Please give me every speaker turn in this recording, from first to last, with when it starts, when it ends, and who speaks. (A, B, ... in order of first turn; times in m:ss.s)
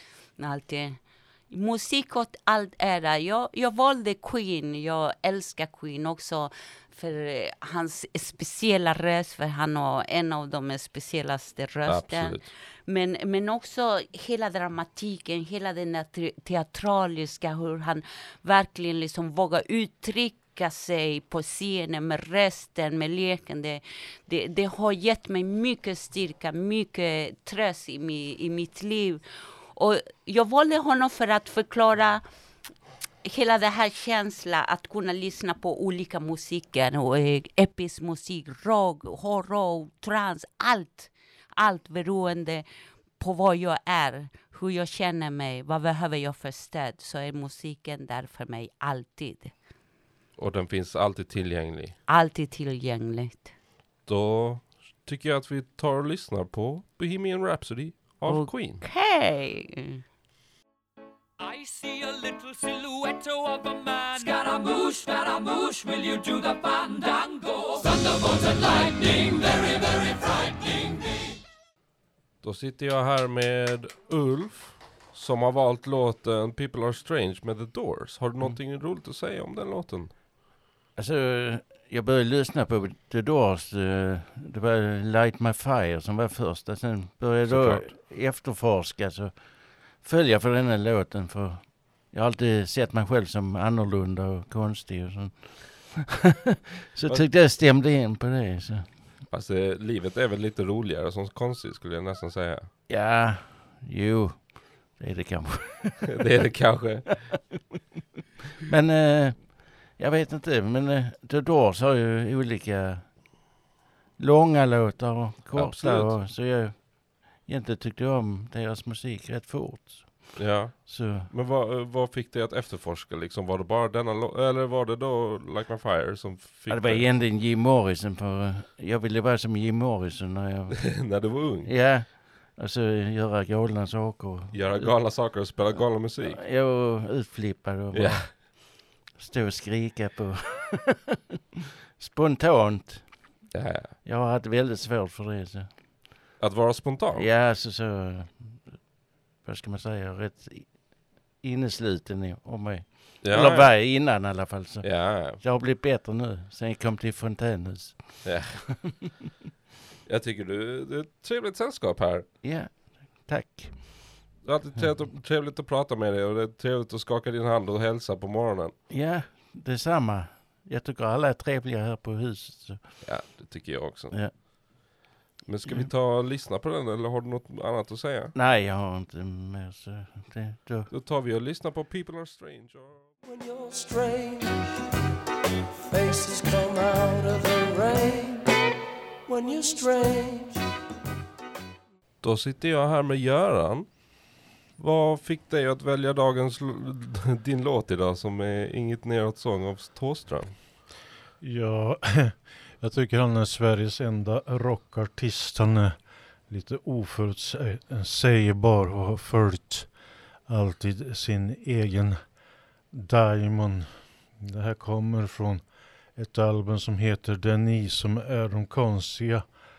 0:00.4-0:32.3 A
0:11.9-0:12.4 B
0:33.2-0:42.7 A
0:43.2-0:49.6 A
0:50.4-0:52.0 B
0:52.1-0:53.5 A
0:54.1-0:58.8 B
0:58.3-1:00.0 A
1:01.4-1:10.9 C
1:12.4-1:20.2 B
1:21.0-1:36.1 D
1:27.4-1:27.9 B
1:36.9-1:39.0 D
1:39.3-1:42.7 B
1:42.9-1:46.2 D
1:46.2-1:47.2 B
1:48.7-2:01.3 D
1:55.5-1:56.2 B
2:00.4-2:07.1 B
2:06.7-2:20.7 D
2:10.8-2:12.0 B
2:14.5-2:16.4 B
2:17.9-2:18.4 B
2:22.0-2:23.5 D
2:23.5-2:24.0 B
2:24.0-2:26.1 D
2:26.4-2:27.3 B
2:27.2-2:39.0 D
2:33.2-2:34.1 B
2:34.8-2:35.4 B
2:38.2-2:39.0 B
2:40.1-2:42.3 B
2:42.4-2:45.0 D
2:44.4-2:48.8 B
2:48.9-2:53.3 D
2:53.0-2:54.7 B
2:54.1-2:54.4 D
2:55.4-2:58.3 B
2:55.6-2:55.9 D
2:58.3-3:00.9 D
3:00.9-3:03.1 B
3:03.2-3:04.6 E
3:05.9-3:08.4 E
3:09.3-3:10.6 E
3:12.2-3:20.6 B
3:21.4-3:39.6 F